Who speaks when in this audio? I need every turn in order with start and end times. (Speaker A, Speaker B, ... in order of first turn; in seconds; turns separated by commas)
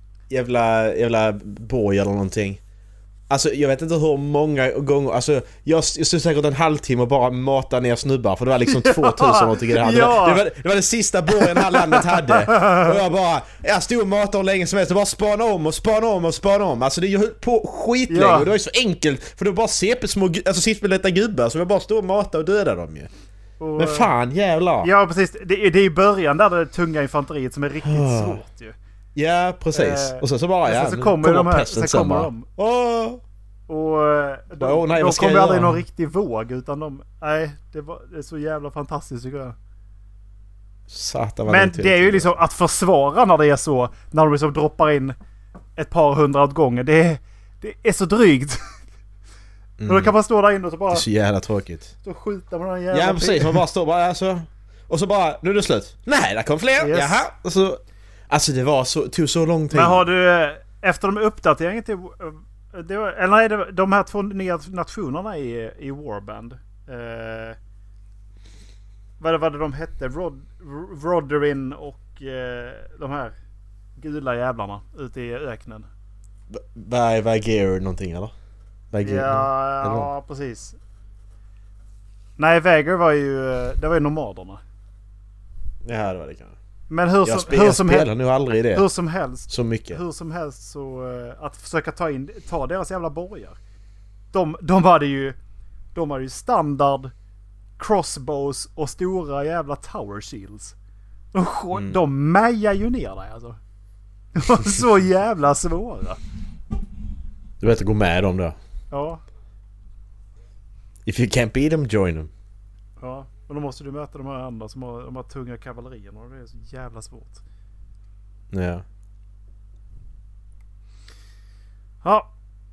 Speaker A: 0.3-2.6, Speaker A: 3.3-23.1, Speaker B: 8.7-10.4, Speaker B: 11.3-12.9, Speaker B: 18.1-18.5, Speaker B: 23.6-24.1, Speaker A: 23.8-24.9, Speaker B: 24.8-28.7, Speaker A: 27.8-28.4, Speaker A: 29.1-33.2, Speaker B: 29.7-32.5, Speaker B: 33.7-39.5, Speaker A: 34.6-35.8, Speaker A: 40.9-42.4, Speaker B: 41.5-45.1, Speaker B: 45.8-48.6, Speaker A: 49.8-50.1, Speaker B: 49.9-51.0, Speaker A: 50.9-51.9, Speaker B: 52.0-53.6, Speaker A: 52.9-60.0, Speaker B: 56.8-57.2, Speaker B: 59.7-67.6, Speaker B: 69.2-73.3, Speaker B: 74.0-75.9, Speaker A: 76.5-78.3, Speaker A: 78.9-80.1, Speaker B: 79.0-80.8, Speaker B: 82.4-84.6, Speaker A: 85.8-86.5, Speaker B: 86.9-88.1, Speaker A: 87.2-88.8, Speaker B: 88.7-93.6, Speaker A: 89.5-90.0, Speaker B: 94.3-95.3, Speaker B: 95.9-97.1, Speaker B: 97.8-100.7, Speaker B: 101.3-103.6, Speaker A: 101.7-102.0, Speaker B: 104.3-106.2, Speaker A: 107.6-108.6, Speaker B: 108.9-109.2, Speaker A: 111.0-112.3, Speaker B: 113.0-117.4, Speaker A: 118.5-118.8, Speaker B: 122.0-122.3